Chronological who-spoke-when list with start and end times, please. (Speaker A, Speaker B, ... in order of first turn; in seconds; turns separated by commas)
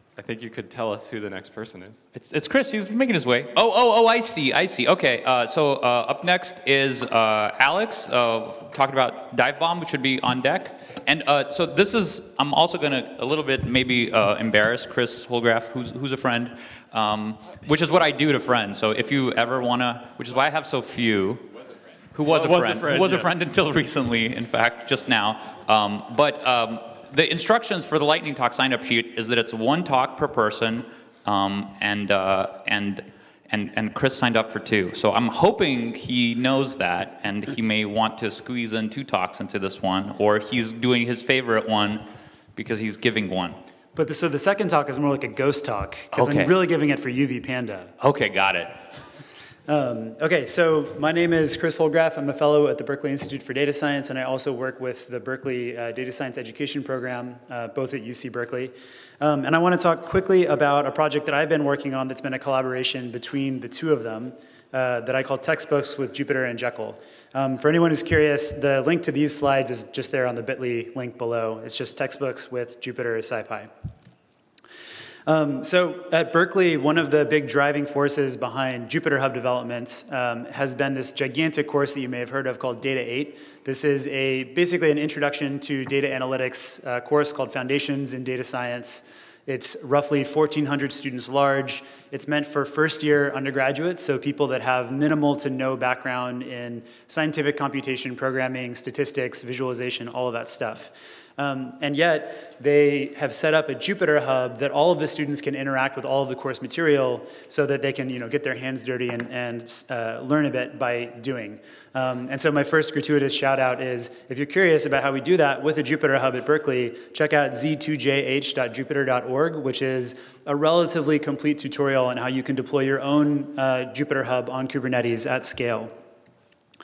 Speaker A: 0.2-2.1, Speaker B: 2.1-21.5, Speaker B: 22.1-43.6, Speaker A: 22.2-23.3, Speaker C: 44.0-47.9, Speaker B: 46.1-46.5, Speaker B: 48.0-48.8, Speaker C: 49.7-73.7, Speaker C: 75.3-125.9